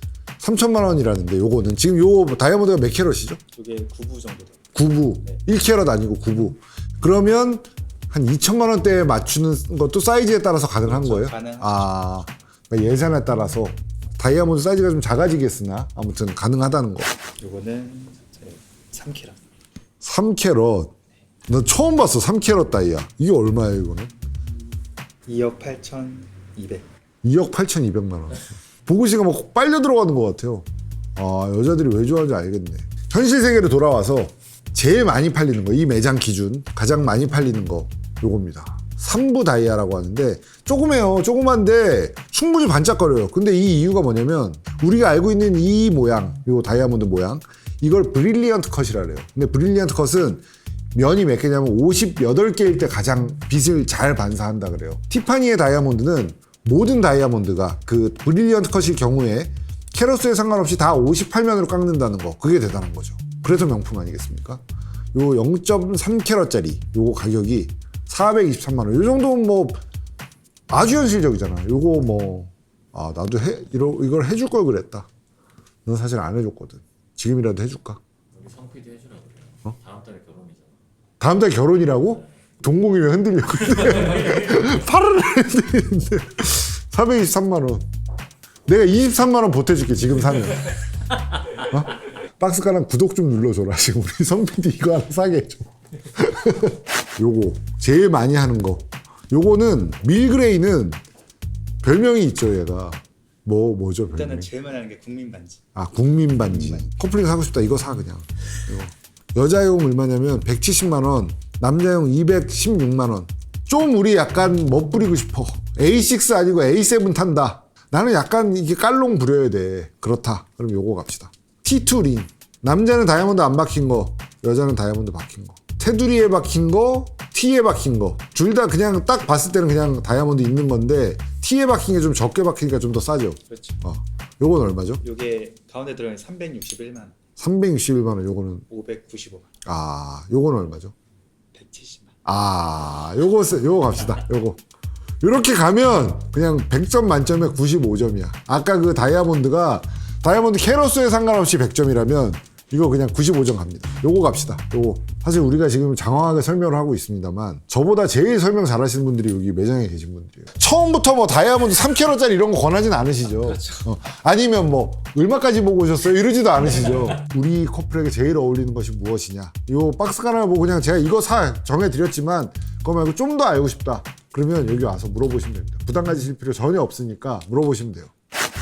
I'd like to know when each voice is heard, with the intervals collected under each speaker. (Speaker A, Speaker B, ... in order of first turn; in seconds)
Speaker A: 0.4-3.4, 4.7-17.2, 20.0-21.0, 21.5-24.1, 27.2-64.6, 65.1-69.8, 70.7-75.1, 75.8-78.0, 81.2-87.9, 88.7-90.8, 91.6-101.0, 101.8-104.5, 105.8-135.0, 137.4-138.7, 139.6-140.9, 142.2-144.6, 145.2-178.1
Speaker B: 3.5-4.6, 10.8-11.9, 17.4-19.4, 25.3-26.9, 104.1-105.6, 106.5-106.8, 133.5-133.8, 135.0-137.2, 138.7-139.5, 141.5-142.1
Speaker C: 78.3-80.8